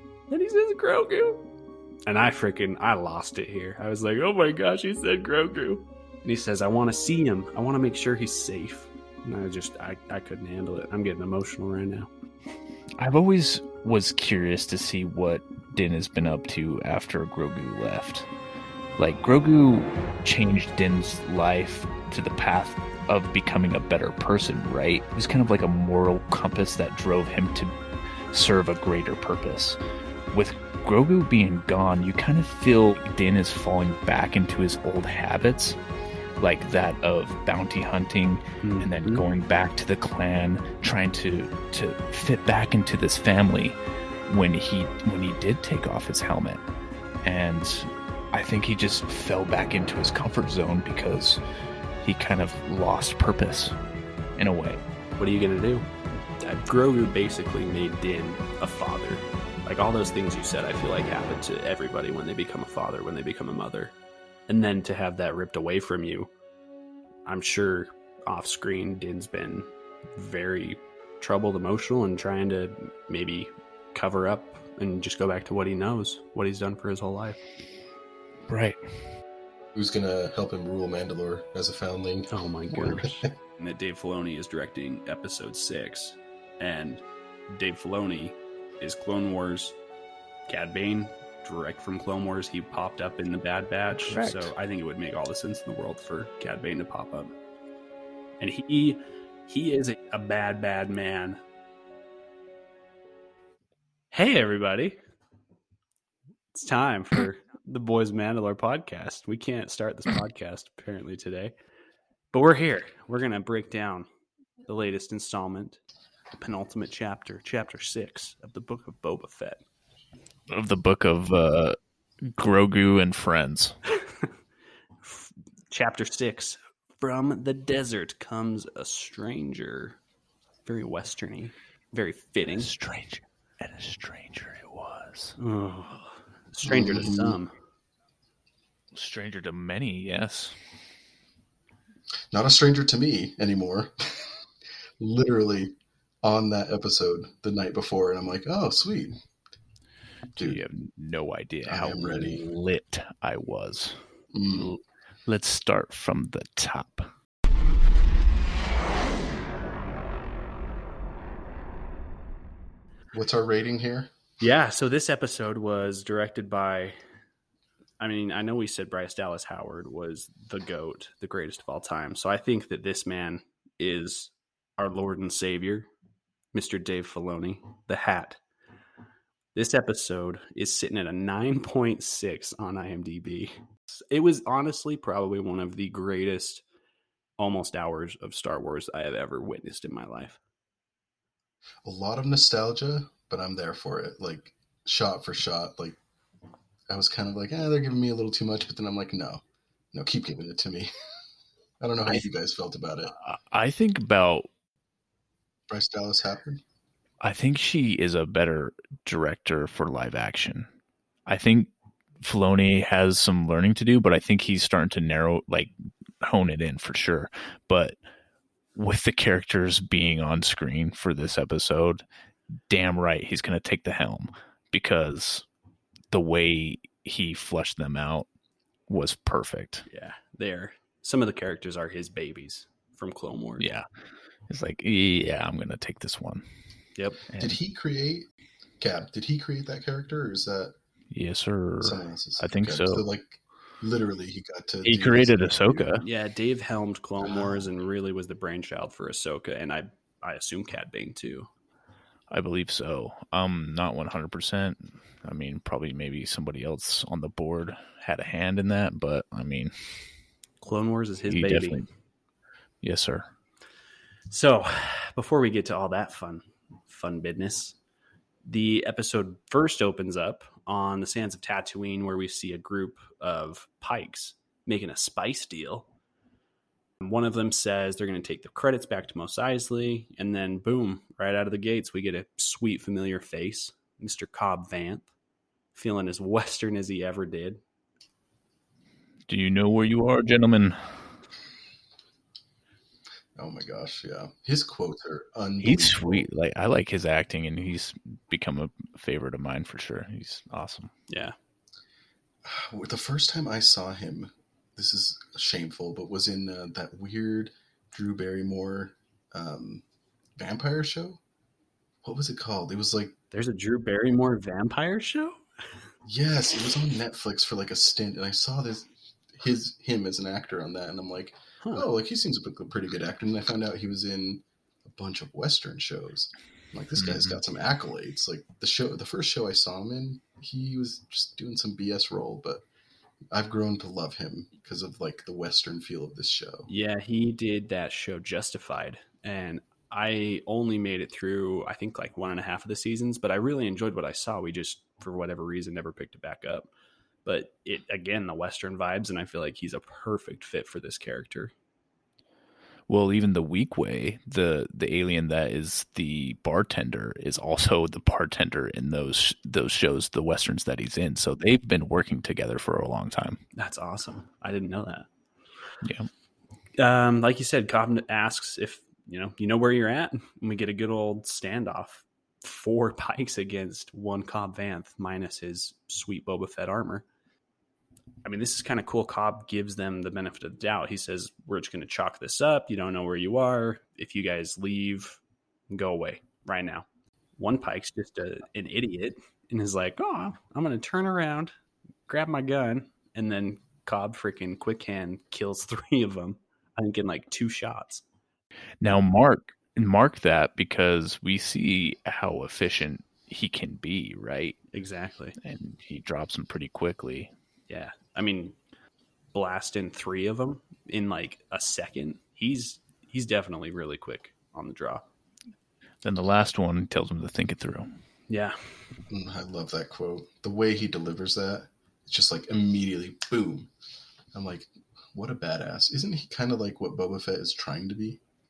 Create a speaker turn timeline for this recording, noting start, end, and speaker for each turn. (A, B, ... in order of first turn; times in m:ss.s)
0:00.3-0:01.4 A
0:02.1-0:12.1 A
0:13.0-0:18.3 B
0:19.0-0:27.7 B
0:28.3-0:29.8 B
0:30.3-0:35.8 B
0:36.4-0:46.6 B
0:38.6-0:39.2 A
0:47.2-0:51.4 B
0:52.0-0:53.8 B
0:54.4-0:54.8 B
0:55.2-0:55.9 A
0:56.4-1:03.9 A
1:04.5-1:06.3 A
1:07.3-1:17.4 A
1:18.5-1:18.8 B
1:19.7-1:23.3 C
1:22.3-1:29.8 A
1:30.5-1:37.3 A
1:34.0-1:34.5 B
1:38.4-1:41.4 A
1:44.1-1:45.0 A
1:46.5-1:51.5 A
1:52.3-1:54.1 A
1:54.7-1:55.8 A
1:56.4-1:59.6 A
2:00.5-2:03.8 B
2:04.0-2:04.3 A
2:05.0-2:10.0 A
2:10.7-2:12.7 A
2:12.5-2:15.4 B
2:15.4-2:17.5 A
2:16.6-2:17.4 C
2:18.9-2:20.6 B
2:22.3-2:24.3 C
2:25.0-2:29.2 C
2:30.4-2:30.6 C
2:30.4-2:34.0 B
2:31.7-2:32.4 C
2:34.3-2:34.7 C
2:34.6-2:37.1 B
2:43.1-2:44.1 C
2:44.4-2:47.0 A
2:48.0-2:55.9 A
2:56.5-2:58.4 A
2:59.6-3:06.6 A
3:07.4-3:10.4 A
3:11.8-3:16.0 C
3:16.9-3:19.4 C
3:19.9-3:20.9 C
3:21.8-3:23.1 C
3:23.2-3:24.5 B
3:25.7-3:26.6 C
3:27.2-3:30.7 B
3:31.3-3:31.7 B
3:32.2-3:35.7 B
3:36.2-3:38.0 B
3:38.8-3:42.0 B
3:42.7-3:45.4 B
3:46.1-3:48.3 B
3:48.9-3:49.9 B
3:49.9-3:53.7 A
3:53.6-3:53.9 B
3:54.5-3:56.4 B
3:57.0-3:57.2 A
3:57.3-3:57.6 B
3:57.4-3:58.3 C
3:58.8-4:00.8 C
4:01.1-4:03.0 B
4:01.8-4:05.9 C
4:04.8-4:06.0 B
4:06.0-4:11.5 A
4:07.2-4:07.6 C
4:12.3-4:20.1 B
4:20.6-4:21.9 A
4:21.3-4:21.9 B
4:22.8-4:23.3 B
4:24.3-4:27.8 A
4:28.4-4:35.9 A
4:37.0-4:45.1 A
4:45.7-4:47.6 A
4:49.3-4:51.0 B
4:53.4-4:56.3 C
4:55.6-5:00.9 B
5:01.1-5:01.4 A
5:02.4-5:09.8 C
5:10.4-5:11.2 C
5:12.0-5:13.2 C
5:13.3-5:15.4 A
5:16.0-5:32.6 C
5:27.0-5:27.4 B
5:33.3-5:36.7 C
5:36.7-5:46.7 A
5:47.2-5:51.5 A
5:52.9-6:03.4 B
6:03.6-6:05.1 A
6:05.8-6:06.1 B
6:06.8-6:17.0 A
6:18.2-6:26.8 A
6:27.4-6:31.5 A
6:32.1-6:38.0 A
6:38.8-6:44.6 B
6:44.7-6:45.4 A
6:45.4-6:47.3 B
6:47.7-6:48.6 A
6:49.3-6:55.0 A
6:56.0-6:57.9 B
6:58.3-6:58.8 A
6:59.1-7:03.7 C
7:04.3-7:08.2 C